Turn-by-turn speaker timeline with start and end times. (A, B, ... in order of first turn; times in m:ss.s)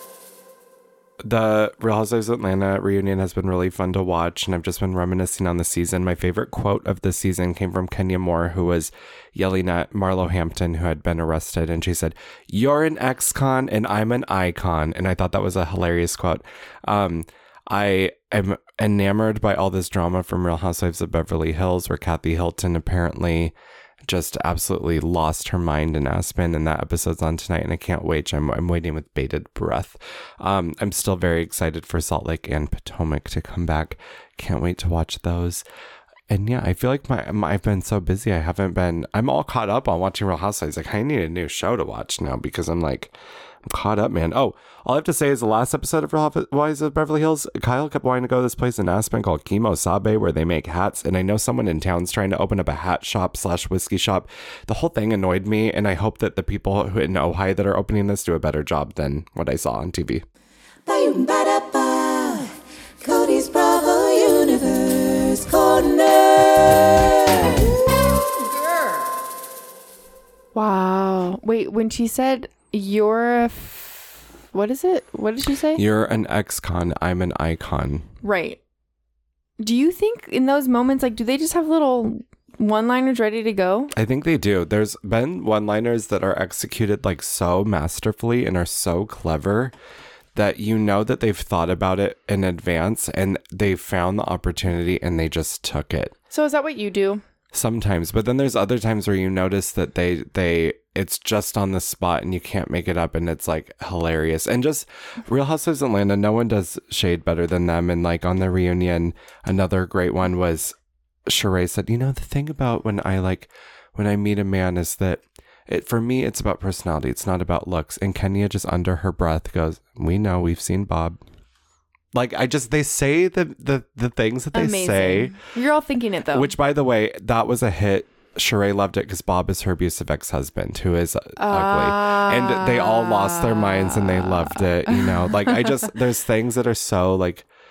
0:01.2-0:23.5 A
0:24.0-0:35.6 A
0:36.3-1:00.2 A
1:00.9-1:07.8 B
1:10.6-1:15.8 C
1:15.7-1:18.1 A
1:18.2-1:18.6 C
1:19.6-1:23.9 C
1:23.9-1:29.7 A
1:30.4-1:36.2 A
1:36.3-1:37.2 C
1:37.5-1:50.8 A
1:51.3-2:01.2 A
2:02.1-2:05.4 A
2:04.5-2:06.5 C
2:06.3-2:17.5 A
2:11.4-2:15.9 C